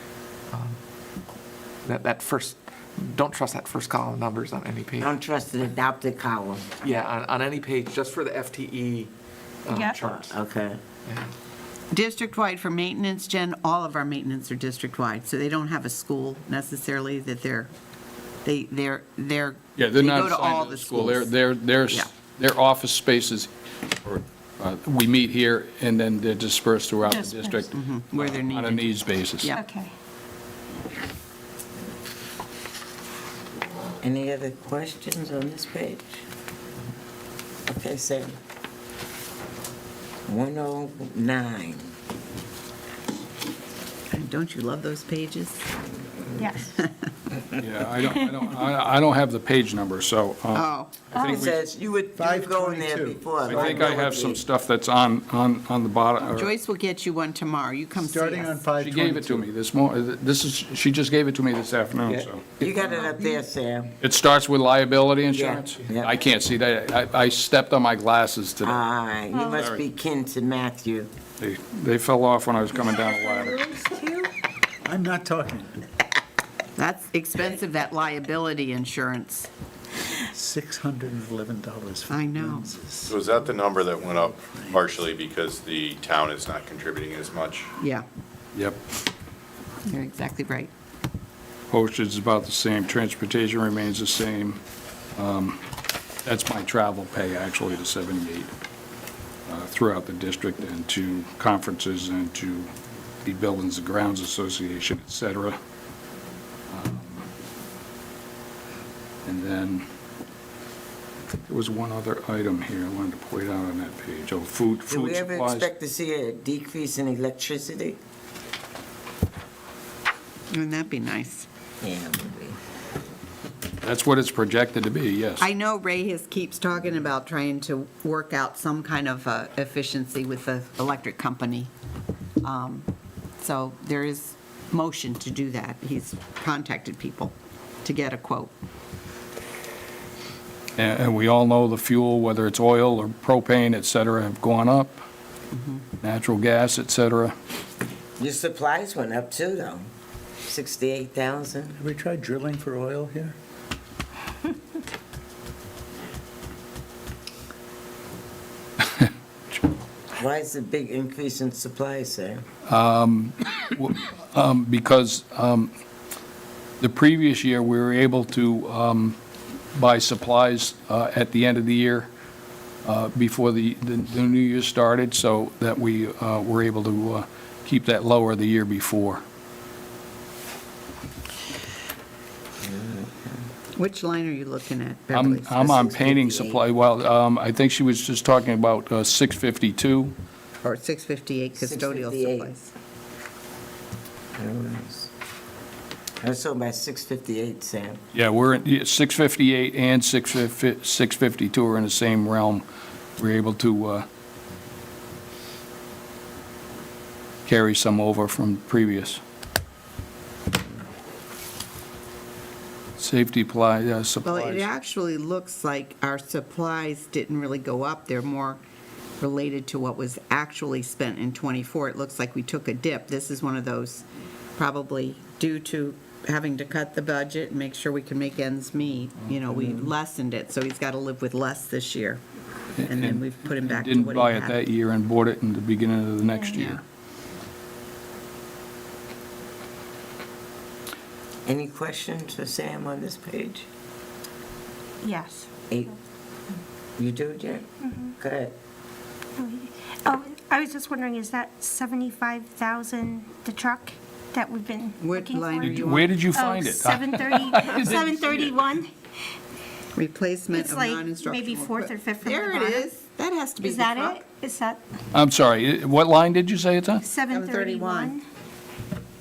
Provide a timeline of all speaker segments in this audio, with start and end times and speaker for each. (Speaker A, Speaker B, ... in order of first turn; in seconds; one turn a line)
Speaker A: 0.5-0.8
Speaker A: 1.8-5.2
Speaker B: 5.0-6.7
Speaker A: 6.8-9.1
Speaker A: 9.7-10.4
Speaker C: 9.7-10.0
Speaker B: 10.0-10.8
Speaker A: 11.1-11.3
Speaker D: 11.9-17.7
Speaker D: 18.4-21.4
Speaker E: 19.8-23.5
Speaker E: 24.0-29.5
Speaker C: 27.0-27.6
Speaker D: 27.7-29.6
Speaker C: 29.5-29.9
Speaker B: 34.0-36.2
Speaker B: 37.7-38.4
Speaker B: 40.3-41.9
Speaker D: 44.1-45.6
Speaker C: 46.4-46.8
Speaker E: 47.6-51.6
Speaker D: 50.5-50.9
Speaker B: 51.2-54.4
Speaker F: 52.1-53.7
Speaker E: 53.5-56.5
Speaker D: 56.3-58.6
Speaker F: 58.0-59.5
Speaker E: 58.8-62.6
Speaker A: 62.1-63.1
Speaker B: 62.6-63.9
Speaker E: 64.0-68.8
Speaker B: 65.3-66.2
Speaker B: 68.6-71.1
Speaker C: 69.3-69.6
Speaker E: 69.5-69.8
Speaker E: 71.4-73.7
Speaker C: 73.1-74.3
Speaker F: 74.8-75.7
Speaker D: 76.8-79.5
Speaker F: 80.3-84.9
Speaker D: 82.1-82.7
Speaker G: 83.1-87.7
Speaker D: 87.8-88.1
Speaker D: 89.8-90.7
Speaker E: 91.7-94.6
Speaker E: 95.2-95.6
Speaker E: 96.2-98.5
Speaker E: 99.5-102.7
Speaker E: 103.2-105.6
Speaker E: 106.7-107.3
Speaker E: 109.2-109.9
Speaker E: 111.5-115.7
Speaker B: 114.9-118.0
Speaker D: 120.5-121.5
Speaker B: 121.8-122.6
Speaker E: 123.8-125.5
Speaker D: 125.4-131.7
Speaker D: 132.4-132.9
Speaker D: 133.4-138.5
Speaker E: 140.8-145.0
Speaker D: 145.5-145.8
Speaker E: 146.0-147.3
Speaker B: 148.2-149.9
Speaker B: 150.4-151.8
Speaker F: 151.8-153.4
Speaker B: 160.2-162.4
Speaker E: 162.7-165.7
Speaker E: 166.8-169.2
Speaker E: 169.8-172.1
Speaker E: 172.8-179.2
Speaker B: 182.6-183.4
Speaker D: 183.8-185.8
Speaker E: 185.1-190.1
Speaker B: 185.6-186.7
Speaker D: 190.6-192.7
Speaker B: 191.6-192.6
Speaker B: 194.4-195.1
Speaker B: 196.2-198.0
Speaker E: 198.1-202.7
Speaker E: 203.2-204.1
Speaker E: 207.5-209.2
Speaker E: 213.0-214.7
Speaker D: 214.2-218.6
Speaker D: 219.2-224.1
Speaker D: 224.6-232.2
Speaker D: 232.8-234.6
Speaker E: 232.8-236.8
Speaker C: 236.3-236.6
Speaker D: 236.6-236.8
Speaker B: 241.5-243.7
Speaker C: 245.0-245.5
Speaker B: 247.0-247.7
Speaker C: 247.8-248.2
Speaker B: 248.2-248.5
Speaker C: 249.4-258.9
Speaker D: 255.0-256.1
Speaker E: 255.6-258.7
Speaker D: 259.9-264.2
Speaker C: 260.5-262.9
Speaker C: 263.6-264.8
Speaker E: 265.1-267.0
Speaker C: 267.0-268.2
Speaker D: 267.3-268.2